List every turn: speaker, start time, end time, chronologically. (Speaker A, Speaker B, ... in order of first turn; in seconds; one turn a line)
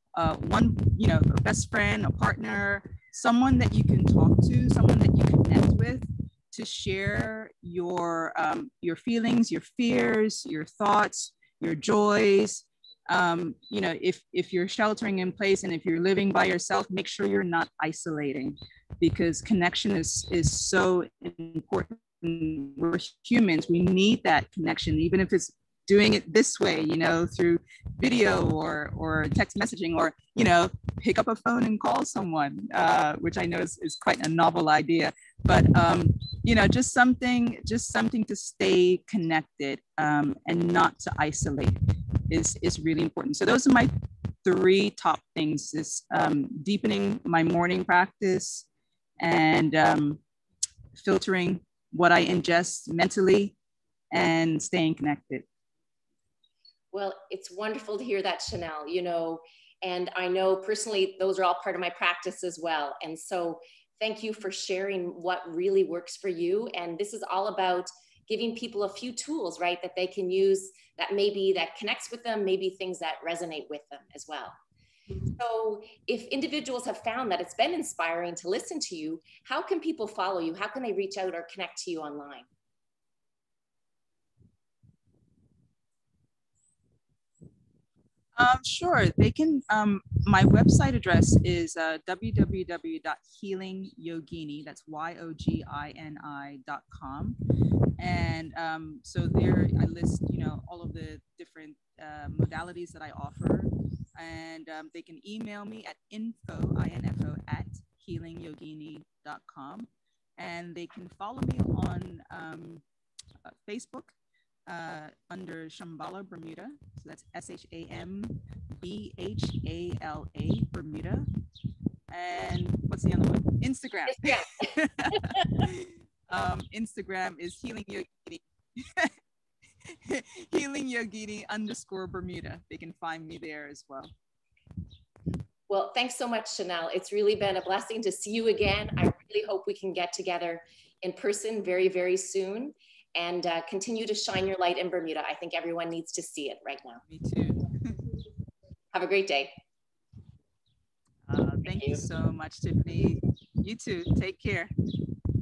Speaker A: 0.1-43.9
Speaker A: 44.4-48.6
Speaker A: 49.2-50.2
Speaker A: 51.0-53.5
Speaker A: 54.1-55.4
Speaker B: 56.9-74.5
Speaker B: 75.2-82.5
Speaker A: 88.3-97.4
Speaker A: 98.0-112.8
Speaker A: 113.5-114.1
Speaker A: 114.7-121.3
Speaker A: 122.1-129.1
Speaker B: 124.1-125.5
Speaker A: 129.9-134.1
Speaker B: 135.7-147.0
Speaker A: 147.1-148.0
Speaker B: 148.9-149.5
Speaker A: 151.3-154.7
Speaker B: 151.7-152.0